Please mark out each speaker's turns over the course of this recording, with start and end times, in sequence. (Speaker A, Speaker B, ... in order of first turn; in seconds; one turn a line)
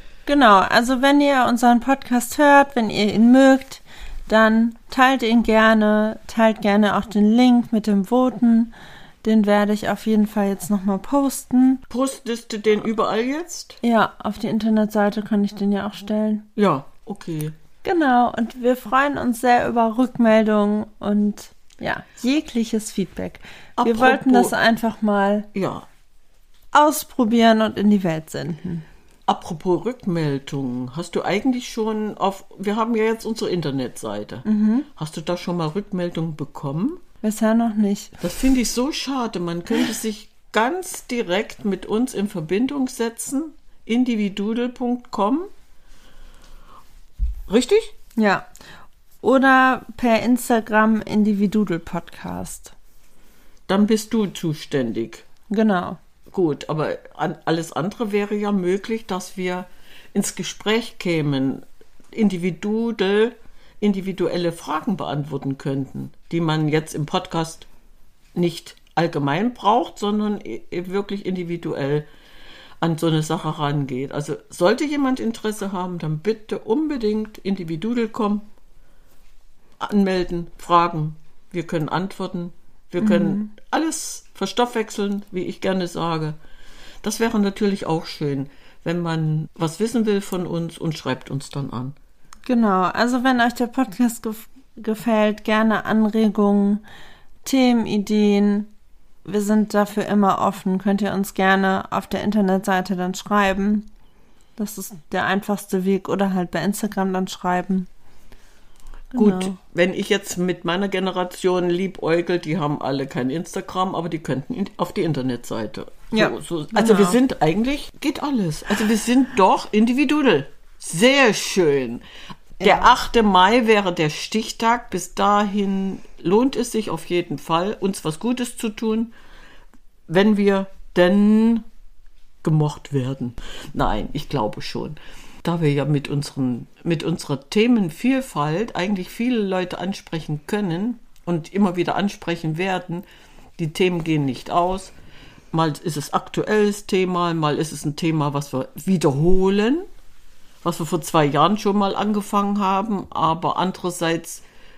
Speaker A: 0.2-11.8
Speaker B: 11.9-13.8
Speaker A: 13.8-16.5
Speaker B: 16.6-17.5
Speaker A: 17.8-25.5
Speaker B: 23.8-24.5
Speaker B: 25.5-25.9
Speaker A: 26.7-28.8
Speaker B: 29.3-37.0
Speaker A: 34.4-34.9
Speaker A: 37.2-38.2
Speaker B: 38.2-45.5
Speaker B: 47.5-47.9
Speaker A: 48.1-48.4
Speaker A: 49.2-52.7
Speaker B: 53.7-55.2
Speaker A: 55.5-56.0
Speaker B: 56.3-67.7
Speaker B: 68.3-72.1
Speaker B: 72.8-78.4
Speaker B: 79.8-86.4
Speaker A: 83.0-83.5
Speaker B: 87.0-91.9
Speaker A: 92.5-96.8
Speaker A: 97.4-98.7
Speaker A: 99.2-103.9
Speaker A: 104.6-107.9
Speaker A: 109.1-109.6
Speaker B: 109.2-122.0
Speaker A: 116.1-117.2
Speaker B: 122.6-129.1
Speaker A: 122.6-122.9
Speaker B: 130.1-131.6
Speaker B: 132.4-143.0
Speaker B: 143.6-144.9
Speaker B: 145.5-149.8
Speaker B: 150.6-154.4